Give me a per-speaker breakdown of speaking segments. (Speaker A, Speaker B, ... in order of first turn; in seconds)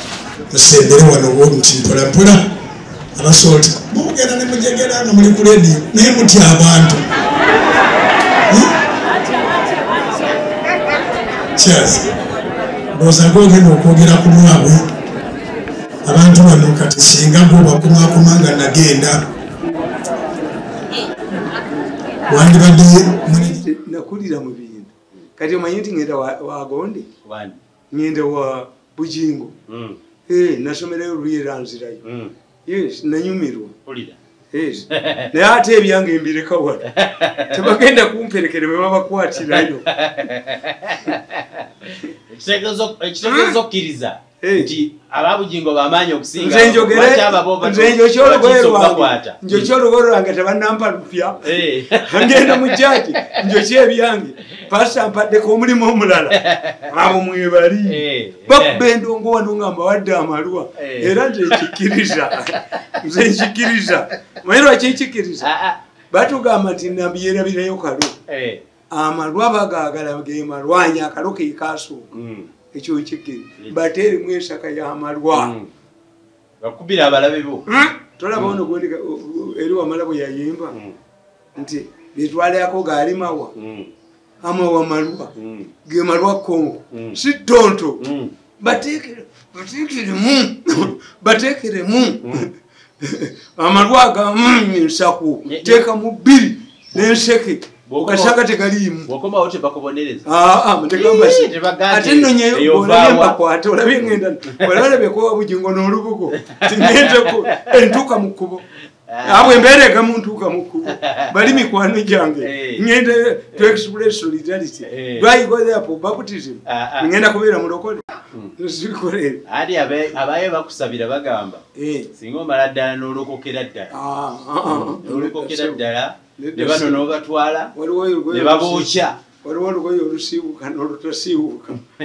Speaker A: 0.5-2.4, 3.2-7.0, 11.6-12.1, 12.9-14.8, 16.1-19.2, 22.3-23.6
Speaker B: 23.2-27.1, 27.9-29.5, 30.3-32.0, 32.6-33.7, 34.5-36.9, 37.5-39.9, 43.2-43.6, 44.4-44.7, 46.3-65.5, 66.1-68.2, 68.9-72.1, 72.7-75.5, 77.7-80.8, 81.5-83.5, 84.4-85.3, 85.8-88.0, 88.6-92.5, 93.0-99.1, 100.2-108.7, 109.2-118.0, 118.6-119.4, 121.8-122.1, 123.9-125.8, 126.4-127.2, 127.7-131.8
Speaker C: 27.2-27.6, 29.7-30.0, 32.0-32.3, 33.9-34.2, 37.0-37.5, 39.5-49.7, 51.4-53.2, 56.3-56.7, 57.9-58.8, 60.8-61.6, 65.4-65.8, 68.3-68.6, 72.1-72.5, 75.3-75.7, 76.6-77.6, 78.3-78.6, 83.5-83.9, 85.4-85.7, 86.9-87.2, 88.0-88.3, 95.4-95.8, 97.8-98.4, 99.0-100.2, 100.9-103.4, 106.5-107.4, 109.1-109.7, 110.9-111.7, 112.4-112.8, 113.5-113.8, 114.9-115.3, 116.7-117.1, 119.5-121.6, 122.1-123.9, 124.6-127.7, 128.3-129.2